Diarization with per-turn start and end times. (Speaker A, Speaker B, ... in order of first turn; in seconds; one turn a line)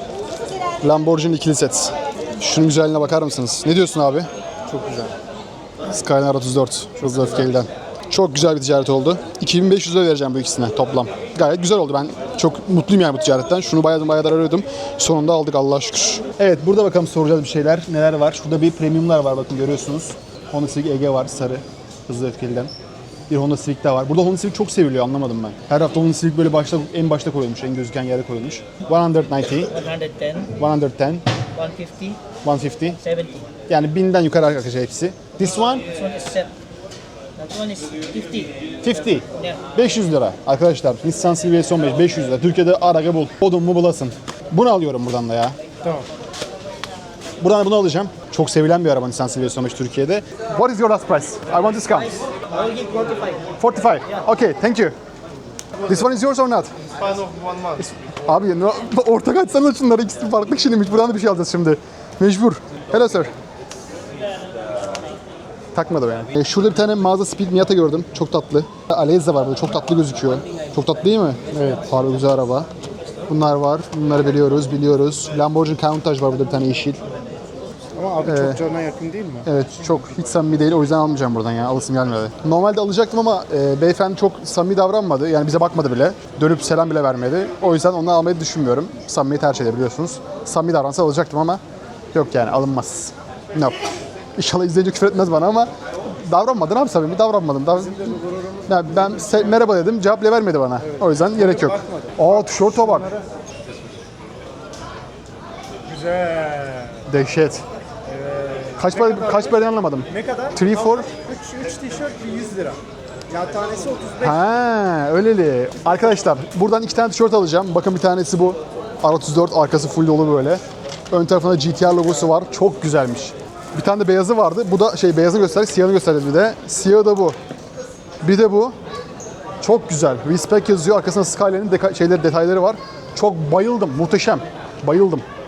Speaker A: 0.8-4.3
Speaker B: 4.7-5.1
Speaker A: 5.9-22.7
Speaker A: 23.3-29.7
Speaker C: 29.7-30.5
Speaker A: 30.6-31.2
Speaker C: 31.5-32.3
Speaker A: 32.4-33.0
Speaker C: 33.0-33.5
Speaker A: 33.7-35.9
Speaker C: 35.6-36.5
Speaker C: 37.4-38.6
Speaker A: 38.8-45.5
Speaker C: 39.3-39.6
Speaker A: 47.4-52.2
Speaker C: 52.5-53.5
Speaker A: 53.6-55.0
Speaker A: 55.8-56.7
Speaker B: 56.9-57.8
Speaker A: 57.8-63.3
Speaker A: 65.7-72.7
Speaker A: 73.3-77.0
Speaker B: 77.9-79.5
Speaker A: 78.2-78.6
Speaker A: 79.5-91.6
Speaker A: 92.1-93.8
Speaker A: 94.3-103.1
Speaker B: 97.7-99.6
Speaker B: 100.8-103.7
Speaker B: 105.8-107.0
Speaker A: 107.1-107.6
Speaker B: 108.0-114.4
Speaker A: 108.8-111.1
Speaker A: 114.2-127.3
Speaker A: 128.2-128.8
Speaker A: 129.6-135.2